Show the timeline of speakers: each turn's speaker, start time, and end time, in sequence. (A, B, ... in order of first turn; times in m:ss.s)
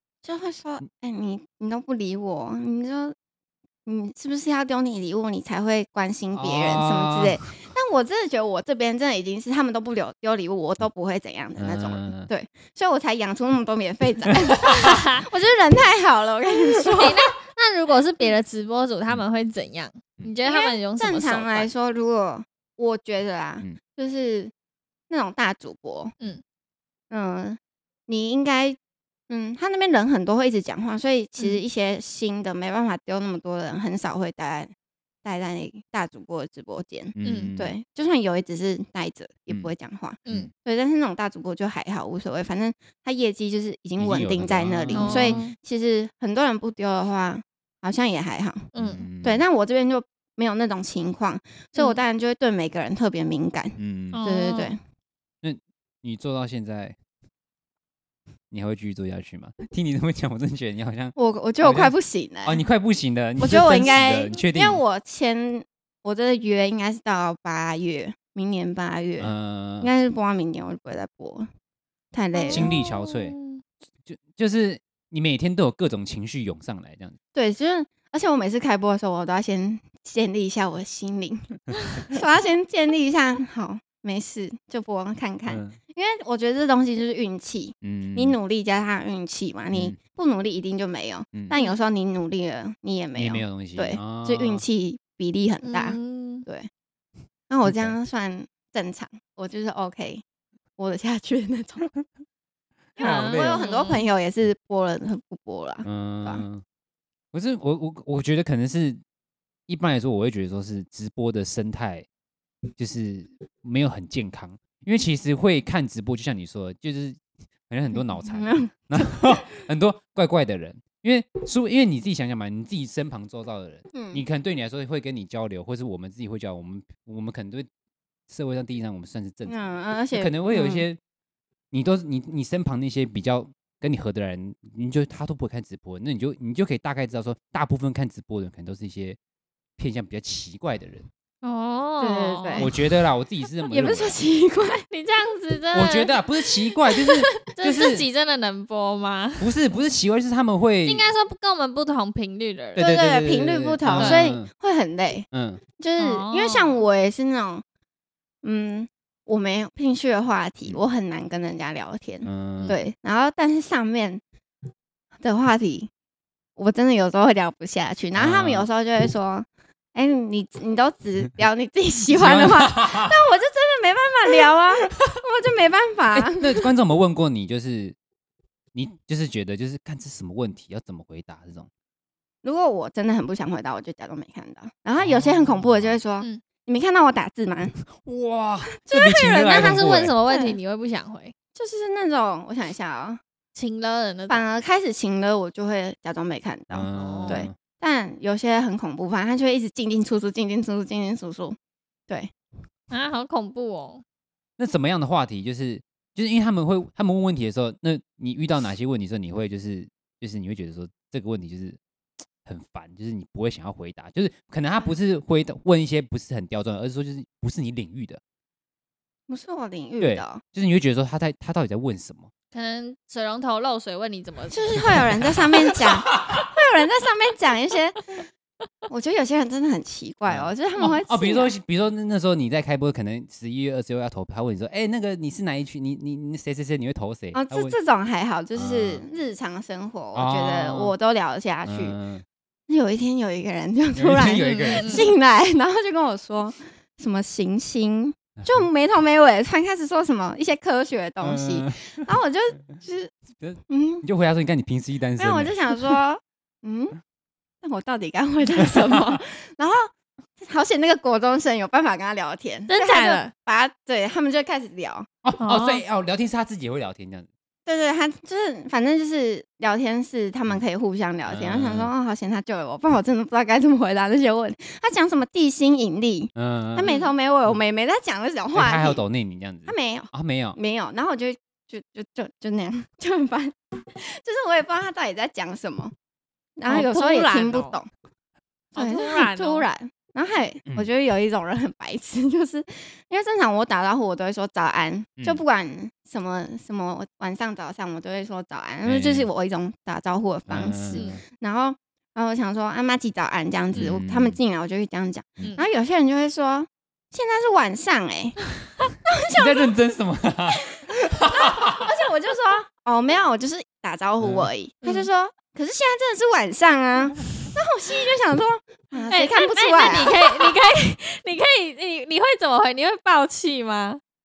0:00.2-0:03.1 A
0:03.8-0:17.2 A
0:06.3-0:07.4 B
0:11.6-0:12.3 B
0:14.8-0:15.2 C
0:17.0-0:21.7 C
0:20.4-0:24.5 A
0:25.1-0:26.1 A
0:27.1-0:28.8 A
0:29.3-0:34.7 A
0:35.2-0:48.7 A
0:37.2-0:37.7 B
0:37.2-0:37.5 C
0:44.0-0:45.4 B
0:44.9-0:45.5 C
0:48.7-0:49.0 C
0:48.7-0:49.4 B
0:49.2-0:54.8 A
0:53.8-0:54.2 B
0:54.1-0:54.7 C
0:55.4-0:57.0 B
0:58.5-1:01.9 B
1:01.2-1:02.6 A
1:02.4-1:04.8 B
1:03.4-1:11.5 A
1:09.2-1:09.9 B
1:12.1-1:12.7 A
1:12.3-1:13.6 C
1:12.5-1:13.4 B
1:14.0-1:17.2 B
1:17.3-1:36.7 A
1:25.5-1:25.8 B
1:27.8-1:28.4 B
1:29.7-1:30.0 B
1:31.5-1:31.8 C
1:33.1-1:34.6 B
1:35.6-1:36.4 C
1:37.5-1:40.2 A
1:37.6-1:37.9 B
1:40.8-1:41.9 A
1:43.0-1:43.6 B
1:43.0-1:46.4 A
1:43.0-1:44.0 C
1:45.8-1:46.6 B
1:47.3-1:49.0 B
1:49.7-1:52.0 B
1:52.8-2:07.7 B
1:58.2-1:59.4 A
2:03.9-2:04.2 A
2:08.3-2:09.6 B
2:09.4-2:10.3 A
2:10.1-2:11.0 B
2:10.5-2:10.8 C
2:11.7-2:19.2 B
2:19.8-2:21.0 B
2:21.4-2:22.7 C
2:22.0-2:22.7 A
2:22.6-2:24.2 B
2:23.7-2:24.8 A
2:24.9-2:26.1 C
2:25.7-2:28.0 B
2:27.5-2:29.4 C
2:29.4-2:31.1 B
2:30.8-2:32.8 C
2:32.7-2:34.5 B
2:32.8-2:35.3 A
2:33.9-2:34.2 C
2:35.3-2:35.6 B
2:35.8-2:37.6 A
2:36.0-2:36.8 C
2:38.4-2:44.2 A
2:42.2-2:42.8 B
2:45.2-2:45.9 A
2:46.6-2:56.7 A
2:48.2-2:48.7 B
2:52.1-2:53.2 B
2:56.1-2:58.0 B
2:58.7-3:01.7 B
3:02.4-3:07.8 A
3:05.0-3:06.0 B
3:08.0-3:10.1 B
3:08.8-3:10.6 A
3:09.5-3:11.3 C
3:11.5-3:13.2 A
3:13.5-3:14.5 C
3:14.3-3:21.6 A
3:16.7-3:17.5 B
3:16.9-3:17.4 C
3:22.9-3:24.0 C
3:24.6-3:31.8 B
3:32.4-3:38.2 B
3:39.3-3:40.4 A
3:40.0-3:42.3 B
3:42.5-3:45.0 C
3:44.5-3:48.1 A
3:45.7-3:46.4 B
3:48.9-3:51.5 A
3:50.3-3:57.8 B
3:57.3-4:01.9 A
3:58.5-3:59.0 B
4:00.1-4:00.9 B
4:01.6-4:02.2 B
4:02.7-4:13.1 A
4:03.9-4:05.1 B
4:04.4-4:05.0 C
4:11.2-4:12.0 B
4:13.4-4:15.5 B
4:13.7-4:14.0 A
4:15.2-4:17.0 A
4:17.6-4:25.1 A
4:18.8-4:19.1 B
4:22.7-4:23.3 C
4:25.2-4:27.3 B
4:25.4-4:25.8 C
4:27.6-4:39.0 A
4:31.3-4:31.9 B
4:36.4-4:36.9 B
4:36.8-4:37.1 C
4:38.5-4:40.6 B
4:39.7-4:45.9 A
4:46.6-4:47.9 A
4:46.7-4:47.7 C
4:48.7-4:49.6 C
4:48.7-5:08.4 A
4:58.8-4:59.3 B
5:00.5-5:01.2 B
5:00.6-5:01.2 C
5:03.7-5:04.4 B
5:09.1-5:09.7 A
5:09.3-5:11.8 B
5:11.3-5:20.5 A
5:14.2-5:14.5 B
5:14.8-5:15.1 C
5:19.1-5:24.0 C